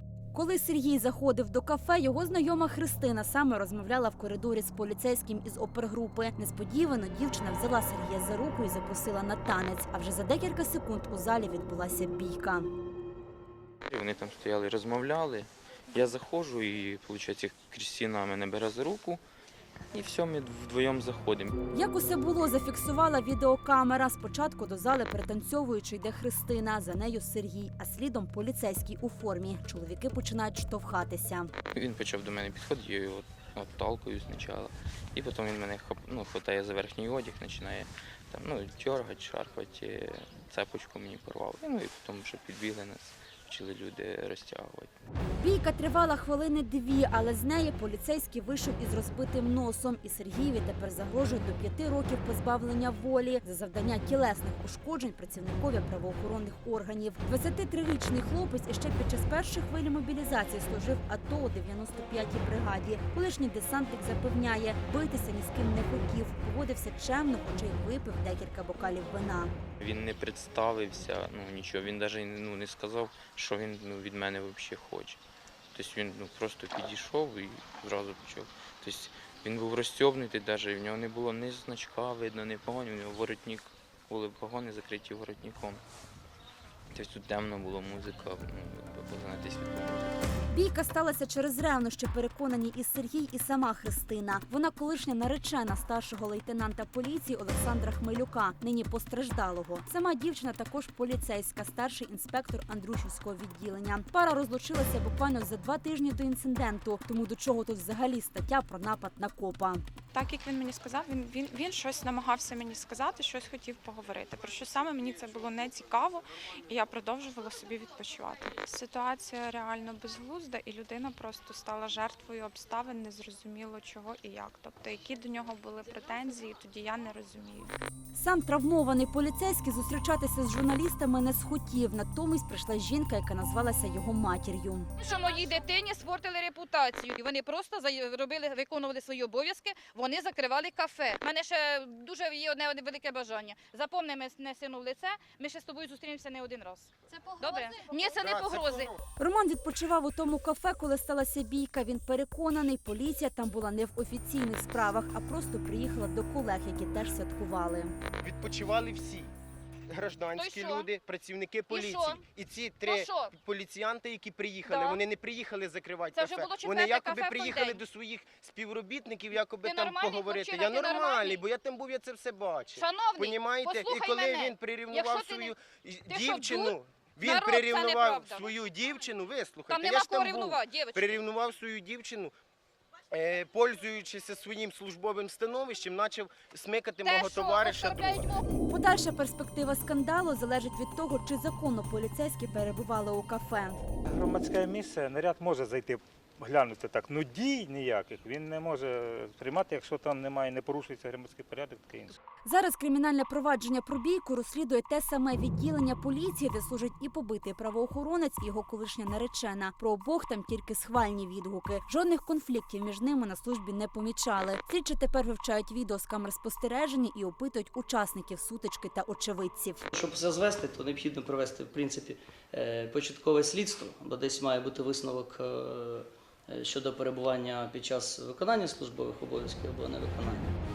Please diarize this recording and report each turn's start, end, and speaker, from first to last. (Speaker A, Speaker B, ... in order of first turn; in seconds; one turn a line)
Speaker A: 0.3-12.7
Speaker B: 13.9-19.2
Speaker B: 19.9-21.6
Speaker A: 21.7-31.5
Speaker B: 31.7-44.9
Speaker A: 45.4-69.5
Speaker B: 69.8-75.2
Speaker B: 75.7-85.8
Speaker B: 86.9-90.2
Speaker A: 90.5-109.8
Speaker C: 110.1-127.8
Speaker A: 128.1-134.9
Speaker D: 135.0-148.9
Speaker E: 148.2-149.0
Speaker A: 149.2-158.0
Speaker E: 158.2-159.3
Speaker E: 159.9-182.3
Speaker D: 160.3-160.9
Speaker D: 161.7-162.2
Speaker D: 162.8-163.3
Speaker D: 164.7-165.0
Speaker D: 166.1-167.8
Speaker D: 169.4-171.5
Speaker D: 172.8-175.6
Speaker D: 176.1-178.6
Speaker D: 179.7-181.2
Speaker E: 183.1-188.3
Speaker D: 187.0-188.5
Speaker A: 188.7-193.8
Speaker F: 194.1-202.2
Speaker A: 202.4-219.9
Speaker G: 219.9-230.5